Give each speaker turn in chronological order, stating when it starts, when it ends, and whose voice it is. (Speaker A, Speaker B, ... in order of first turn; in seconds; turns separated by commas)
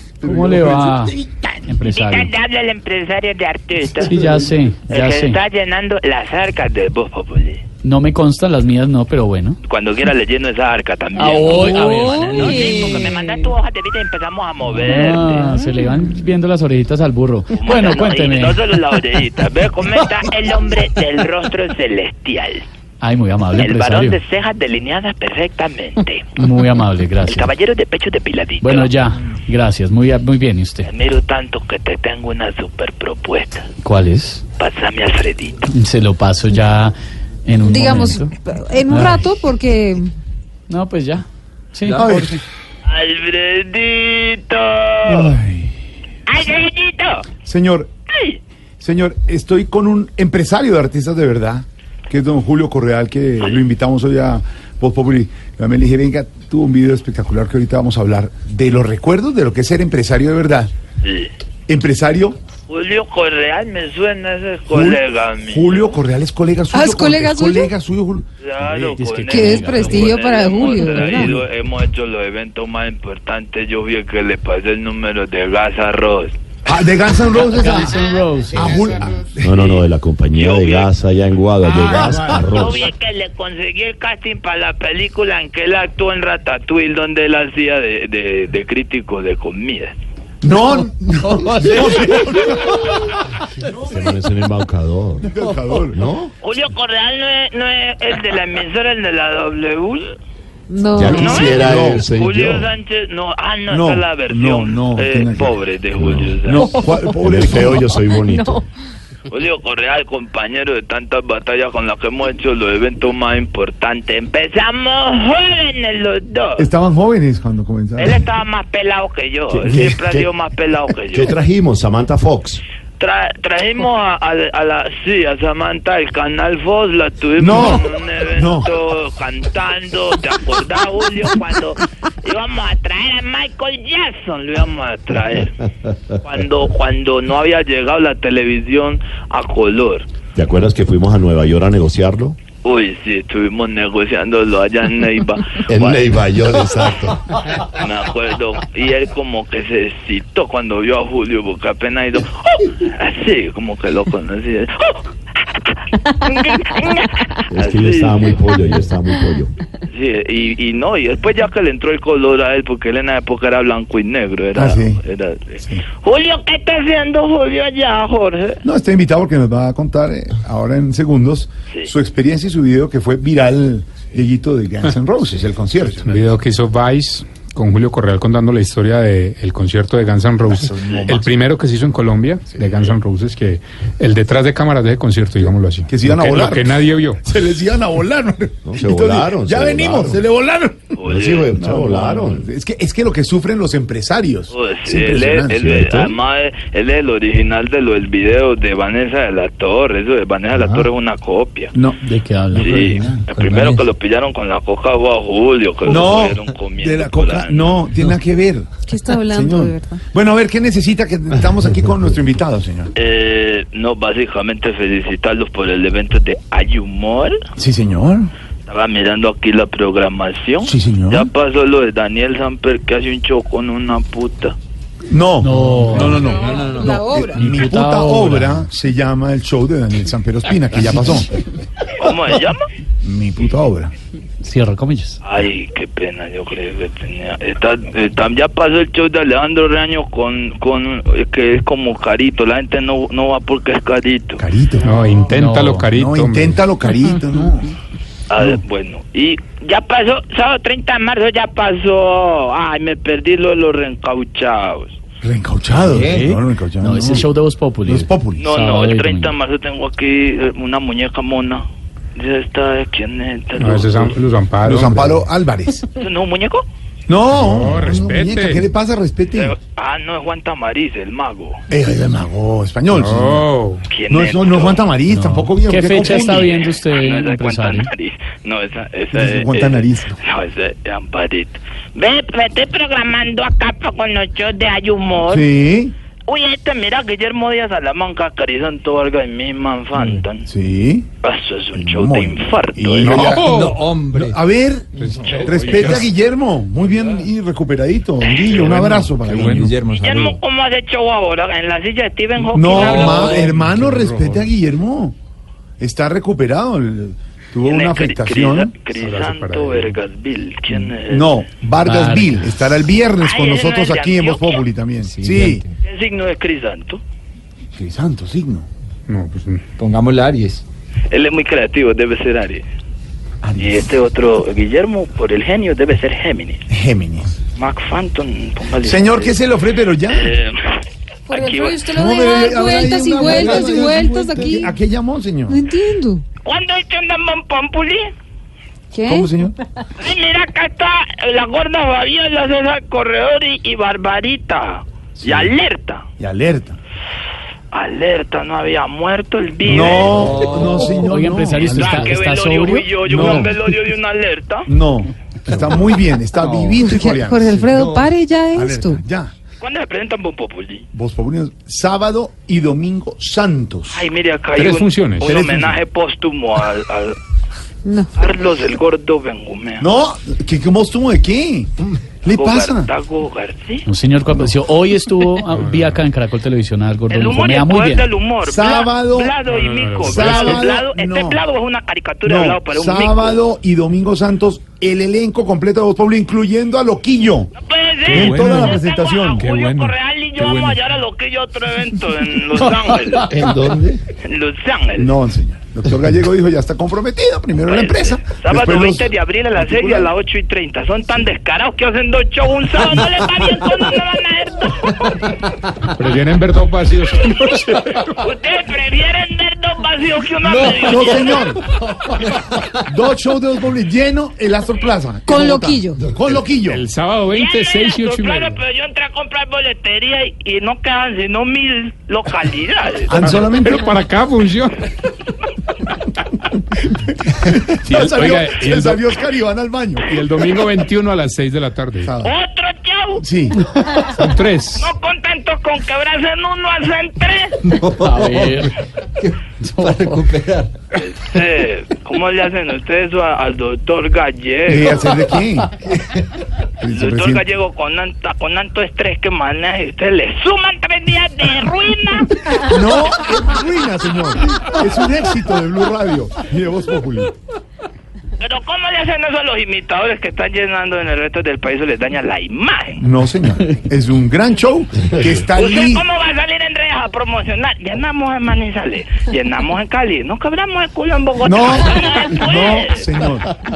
Speaker A: 0.2-1.2, Speaker B: 0.2-1.8, Speaker A: 1.7-2.3, Speaker C: 1.9-7.7, Speaker A: 4.0-5.4, Speaker A: 7.8-9.6, Speaker C: 9.6-15.5, Speaker A: 11.2-12.9, Speaker D: 11.5-13.5, Speaker A: 14.7-18.8, Speaker C: 17.5-22.7, Speaker A: 23.0-24.2, Speaker C: 23.5-26.4, Speaker A: 26.4-27.5, Speaker C: 27.2-28.9, Speaker A: 28.6-30.9, Speaker C: 30.9-33.7, Speaker A: 33.8-34.5, Speaker C: 34.6-35.6, Speaker A: 35.7-36.9, Speaker A: 37.5-38.3, Speaker D: 37.7-40.1, Speaker A: 38.9-39.3, Speaker A: 40.7-42.3, Speaker B: 41.9-42.4, Speaker C: 42.9-45.4, Speaker B: 45.0-45.7, Speaker C: 46.3-47.3, Speaker B: 47.4-47.9, Speaker C: 48.1-48.4, Speaker B: 48.8-60.7, Speaker C: 61.0-61.3, Speaker B: 61.7-62.4, Speaker C: 62.7-66.0, Speaker B: 64.7-68.3, Speaker D: 66.7-67.7, Speaker C: 68.4-76.3, Speaker A: 68.6-70.2, Speaker D: 69.3-71.4, Speaker B: 76.7-79.8, Speaker A: 77.4-78.9, Speaker E: 79.4-82.9, Speaker C: 80.3-80.9, Speaker B: 81.7-82.5, Speaker C: 82.3-90.0, Speaker B: 90.4-93.0, Speaker B: 93.6-94.0, Speaker E: 93.8-95.3, Speaker B: 95.2-96.0, Speaker E: 95.9-96.3, Speaker C: 96.4-100.2, Speaker D: 100.7-101.7, Speaker E: 101.0-102.7, Speaker B: 101.1-102.1, Speaker C: 101.1-106.7, Speaker B: 103.7-107.8, Speaker E: 106.0-106.4, Speaker E: 107.1-108.7, Speaker D: 107.8-108.6, Speaker C: 109.3-116.7, Speaker B: 116.6-118.2, Speaker C: 118.0-121.3, Speaker E: 119.5-120.3, Speaker E: 121.1-122.6, Speaker C: 123.0-135.6, Speaker B: 127.4-128.7, Speaker C: 136.2-140.1, Speaker E: 140.3-142.4, Speaker C: 142.6-146.0, Speaker E: 145.7-147.6, Speaker C: 147.7-158.6, Speaker E: 157.5-159.5, Speaker C: 159.9-168.6, Speaker B: 164.6-165.0, Speaker B: 168.6-176.4, Speaker F: 175.9-187.2, Speaker B: 180.5-181.3, Speaker B: 185.4-191.0, Speaker E: 188.7-190.2, Speaker C: 191.0-191.5, Speaker E: 191.0-192.5, Speaker B: 191.5-196.1, Speaker C: 194.5-201.8, Speaker E: 195.8-196.1, Speaker B: 200.5-200.9, Speaker B: 201.7-203.4, Speaker A: 202.1-203.8, Speaker C: 202.6-207.8, Speaker B: 205.8-208.7, Speaker D: 208.9-210.0, Speaker B: 209.3-212.9, Speaker C: 212.9-217.4, Speaker B: 217.6-218.3, Speaker C: 218.7-224.6, Speaker B: 220.6-221.3, Speaker B: 225.1-231.4, Speaker A: 225.4-226.3, Speaker D: 226.5-227.5, Speaker A: 227.4-228.7, Speaker C: 232.0-232.7, Speaker B: 233.0-233.9, Speaker A: 234.4-235.2, Speaker C: 235.2-244.4, Speaker B: 244.4-244.9, Speaker F: 244.8-246.6, Speaker A: 245.3-245.9, Speaker B: 245.9-247.7, Speaker C: 248.3-255.0, Speaker B: 255.2-257.3, Speaker A: 256.0-259.3, Speaker B: 257.8-258.5, Speaker C: 258.4-264.1, Speaker F: 263.6-265.2, Speaker B: 264.6-265.9, Speaker C: 266.0-266.6, Speaker B: 267.1-269.6, Speaker F: 267.3-268.7, Speaker C: 269.4-271.6, Speaker B: 271.7-273.5, Speaker F: 272.9-273.9, Speaker C: 273.9-274.9, Speaker B: 274.1-276.5, Speaker A: 275.1-277.9, Speaker C: 276.0-285.5, Speaker B: 279.1-280.2, Speaker B: 285.3-285.9, Speaker C: 286.3-290.4, Speaker B: 290.5-291.1, Speaker C: 291.2-293.3, Speaker B: 291.8-299.9, Speaker F: 293.0-293.9, Speaker G: 293.5-294.4, Speaker F: 295.0-296.1, Speaker C: 295.2-295.5, Speaker C: 298.2-298.6, Speaker F: 298.6-299.7, Speaker G: 299.2-300.4, Speaker C: 300.0-303.5, Speaker B: 302.5-305.1, Speaker F: 302.7-304.4, Speaker B: 305.8-308.8, Speaker C: 307.7-311.4, Speaker F: 308.9-310.0, Speaker B: 311.0-315.6, Speaker A: 311.8-312.5, Speaker C: 313.2-314.7, Speaker G: 315.2-315.5, Speaker C: 315.8-317.0, Speaker B: 317.8-318.7, Speaker F: 319.1-319.6, Speaker G: 319.8-320.6, Speaker C: 321.1-322.6, Speaker B: 323.4-323.9, Speaker C: 323.6-326.6, Speaker B: 326.7-327.3, Speaker C: 327.6-329.4, Speaker B: 328.8-330.4, Speaker C: 330.1-330.7, Speaker D: 331.3-334.7, Speaker C: 331.3-331.9, Speaker B: 331.9-335.6, Speaker D: 335.5-336.2, Speaker C: 336.4-338.1, Speaker D: 338.9-339.3, Speaker B: 339.1-339.6, Speaker C: 340.0-346.1, Speaker B: 345.2-345.5, Speaker B: 346.2-346.8, Speaker C: 347.7-350.4, Speaker B: 349.6-352.1, Speaker G: 350.1-350.7, Speaker A: 351.1-353.0, Speaker C: 351.5-354.7, Speaker B: 353.0-353.7, Speaker B: 354.6-357.6, Speaker D: 356.7-359.0, Speaker B: 358.5-359.3, Speaker C: 359.6-360.9, Speaker B: 360.9-364.1, Speaker C: 363.9-367.2, Speaker F: 364.6-365.4, Speaker B: 365.2-365.8, Speaker C: 368.2-369.9, Speaker B: 369.8-372.9, Speaker C: 372.3-373.9, Speaker A: 373.9-378.1, Speaker F: 375.5-376.1, Speaker C: 377.1-383.4, Speaker B: 378.4-379.4, Speaker F: 379.4-380.7, Speaker B: 380.0-381.4, Speaker B: 382.2-387.5, Speaker C: 387.6-393.4, Speaker B: 388.1-389.5, Speaker F: 388.2-388.7, Speaker F: 389.4-390.8, Speaker E: 393.3-394.0, Speaker C: 394.2-395.1, Speaker B: 395.0-400.1, Speaker C: 397.6-405.2, Speaker F: 405.9-408.3, Speaker C: 408.2-411.6, Speaker B: 410.8-411.6, Speaker B: 412.7-416.8, Speaker D: 415.3-416.0, Speaker F: 416.6-418.6, Speaker C: 417.3-423.1, Speaker B: 423.1-423.9, Speaker F: 423.2-424.8, Speaker B: 426.9-430.1, Speaker F: 427.9-429.0, Speaker F: 430.1-432.1, Speaker B: 432.0-432.4, Speaker C: 432.2-433.2, Speaker B: 433.2-433.7, Speaker F: 433.9-434.9, Speaker C: 434.8-437.6, Speaker A: 437.9-438.7, Speaker A: 439.5-440.4, Speaker G: 440.1-440.7, Speaker C: 440.9-445.3, Speaker B: 444.7-446.2, Speaker B: 446.8-447.5, Speaker C: 446.9-452.8, Speaker B: 452.6-457.4, Speaker C: 458.4-463.0, Speaker B: 463.0-466.1, Speaker C: 465.6-473.1, Speaker B: 471.4-473.5